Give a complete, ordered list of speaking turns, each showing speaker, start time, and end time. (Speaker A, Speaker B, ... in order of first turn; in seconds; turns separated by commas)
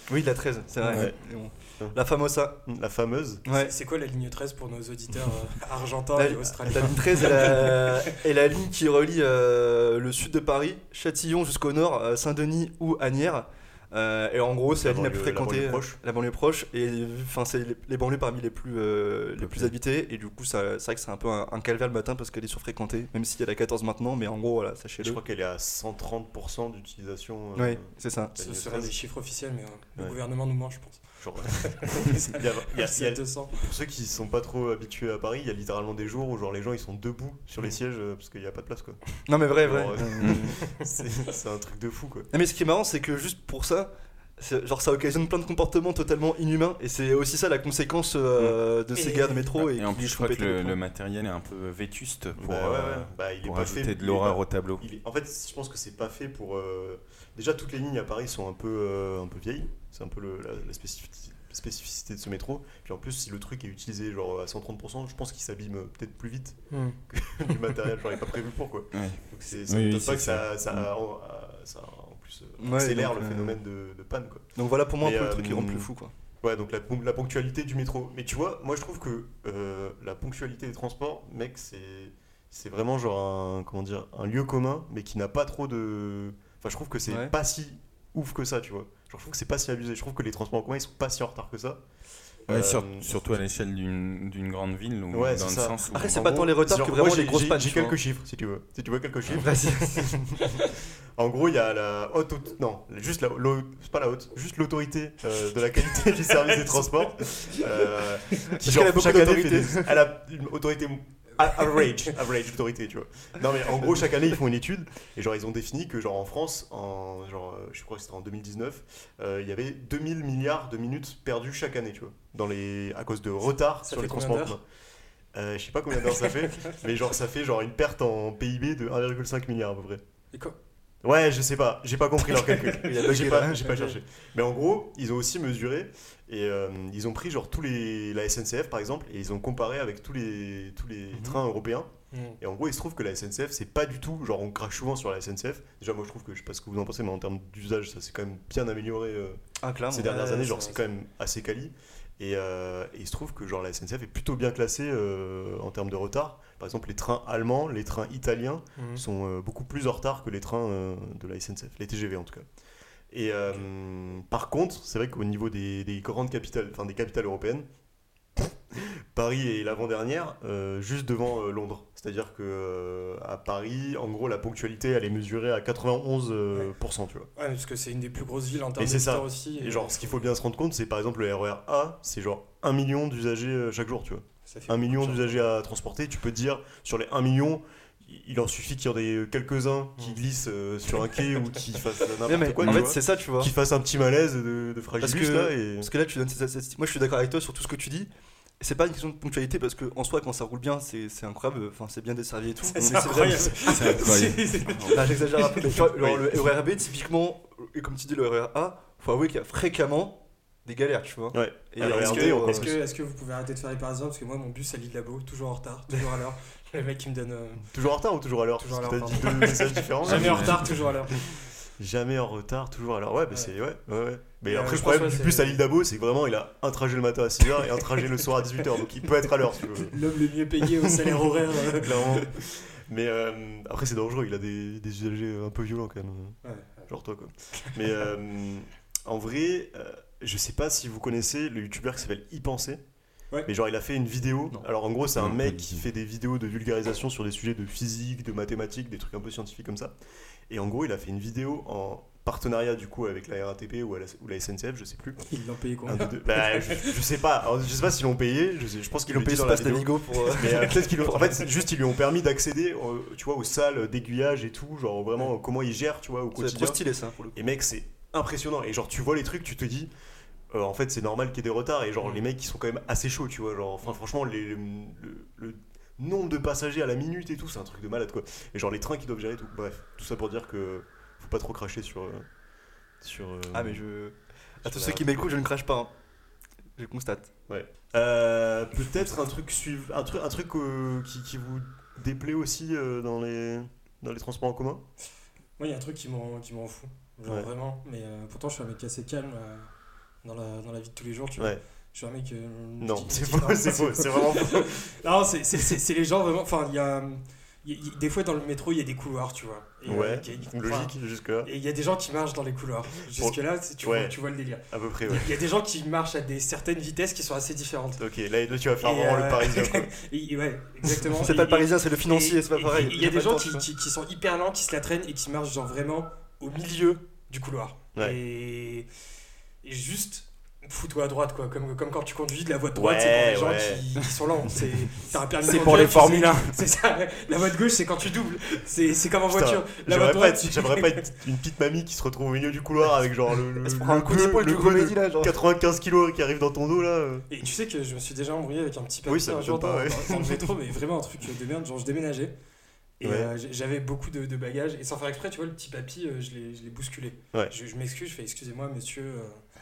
Speaker A: 0.1-2.6, Speaker B: 0.8-1.2, Speaker B: 2.6-3.4, Speaker A: 3.5-3.7, Speaker C: 3.5-7.9, Speaker A: 6.2-25.2, Speaker B: 14.8-16.0, Speaker B: 19.4-19.7, Speaker B: 25.0-28.9, Speaker A: 27.6-28.4, Speaker C: 28.4-33.6, Speaker B: 31.2-42.3, Speaker A: 39.3-40.7, Speaker A: 42.3-50.8, Speaker C: 49.0-49.5, Speaker D: 49.6-54.9, Speaker B: 52.4-75.9, Speaker C: 66.7-67.0, Speaker D: 68.9-70.9, Speaker A: 72.6-73.6, Speaker A: 74.6-76.1, Speaker B: 76.4-91.8, Speaker B: 92.5-93.1, Speaker D: 92.5-96.2, Speaker B: 95.1-124.6, Speaker A: 95.9-98.0, Speaker A: 99.4-100.7, Speaker C: 106.3-106.9, Speaker A: 108.5-110.0, Speaker C: 123.8-124.6, Speaker B: 125.3-130.0, Speaker C: 126.2-126.8, Speaker B: 131.0-141.9, Speaker C: 132.3-132.8, Speaker A: 132.8-133.6, Speaker C: 133.6-134.0, Speaker A: 141.1-141.4, Speaker C: 142.1-142.4, Speaker B: 142.4-162.5, Speaker A: 149.6-150.7, Speaker C: 150.4-150.8, Speaker C: 158.8-159.0, Speaker B: 163.1-167.7, Speaker B: 168.4-177.3, Speaker C: 177.4-180.3, Speaker B: 178.8-195.9, Speaker C: 184.5-185.3, Speaker A: 192.3-193.5, Speaker A: 195.0-204.1, Speaker C: 202.6-205.8, Speaker D: 203.7-205.2, Speaker A: 204.9-212.8, Speaker B: 205.8-206.5, Speaker B: 211.3-212.7, Speaker C: 211.8-217.7, Speaker B: 217.7-230.0, Speaker C: 218.6-221.2, Speaker D: 220.0-220.9, Speaker C: 224.4-225.6, Speaker C: 229.7-232.3, Speaker B: 230.9-231.1, Speaker B: 231.7-236.4, Speaker C: 236.4-236.9, Speaker B: 236.9-242.8, Speaker B: 243.5-249.9, Speaker D: 245.2-245.8, Speaker B: 250.5-255.2, Speaker C: 255.2-257.0, Speaker B: 255.9-266.8, Speaker A: 259.1-261.5, Speaker A: 266.4-267.4, Speaker B: 267.3-269.9, Speaker B: 270.5-282.2, Speaker B: 283.0-283.8, Speaker A: 283.5-285.9, Speaker B: 284.6-285.2, Speaker A: 286.8-287.3, Speaker B: 287.5-294.8, Speaker C: 295.6-299.7, Speaker B: 297.2-297.5, Speaker C: 300.2-310.9, Speaker B: 302.8-304.8, Speaker B: 309.9-311.5, Speaker C: 311.4-318.0, Speaker B: 313.1-314.2, Speaker B: 314.7-315.3, Speaker B: 318.0-319.9, Speaker C: 318.8-328.9, Speaker A: 321.2-323.7, Speaker C: 329.6-341.1, Speaker B: 332.8-333.8, Speaker D: 335.4-336.5, Speaker B: 339.3-347.3, Speaker A: 343.6-345.4, Speaker C: 347.3-352.3, Speaker B: 349.1-350.6, Speaker C: 353.0-359.4, Speaker B: 353.0-353.3